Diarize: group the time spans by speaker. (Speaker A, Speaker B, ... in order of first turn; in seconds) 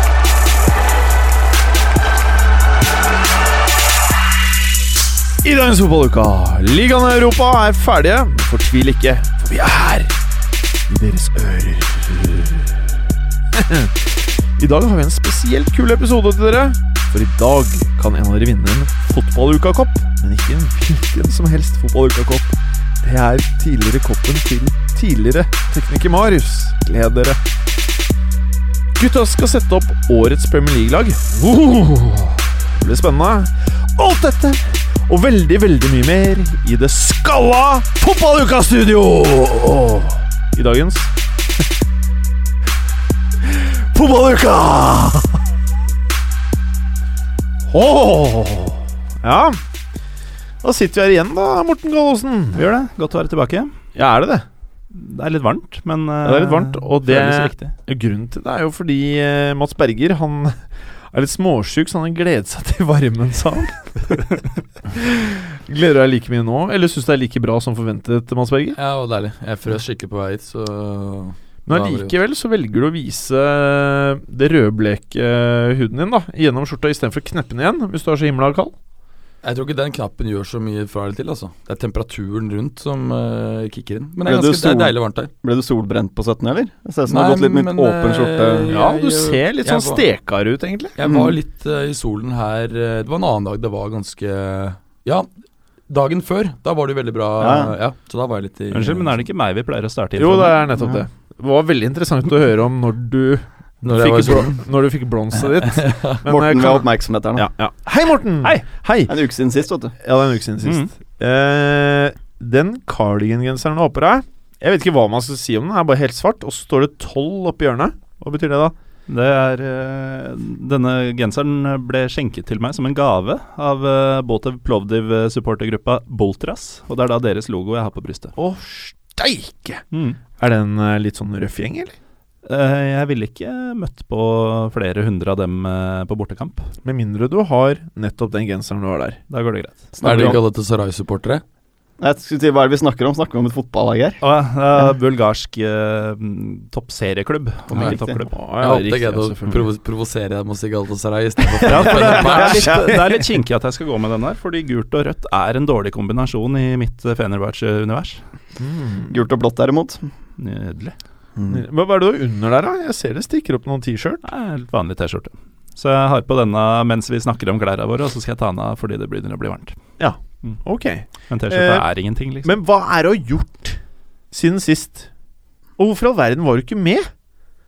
Speaker A: 5.4-10.1, 10.9-12.7, 13.5-27.4, 29.0-41.1, 43.4-45.4, 47.7-49.6, 50.6-52.6, 53.9-54.4, 56.2-60.6, 61.1-64.2, 64.9-68.8, 71.7-78.7, 88.7-90.9, 100.2-109.2, 110.0-118.7, 128.3-129.8, 130.4-131.9, 136.8-139.2, 148.3-149.7, 158.6-159.1, 161.5-164.2, 170.0-171.8, 172.4-173.8, 174.3-175.1, 175.8-177.1
Speaker B: 52.5-53.7, 54.9-57.7, 98.7-100.8, 110.6-110.9, 119.1-128.3, 129.9-130.2, 132.4-136.7, 139.3-139.9, 144.2-148.3, 151.7-158.2, 160.4-160.9, 164.2-169.8, 171.3-172.6
Speaker C: 68.8-72.1, 79.4-85.3, 87.1-90.0, 91.0-95.3, 95.9-99.2, 103.8-104.6, 105.7-106.1, 140.0-141.4, 148.6-152.7
Speaker D: 84.2-88.7, 91.0-91.3, 97.4-97.7, 106.2-107.5, 109.1-109.9, 139.9-140.4, 142.0-144.2, 147.7-148.2, 151.7-153.2, 159.1-160.1, 161.4-161.6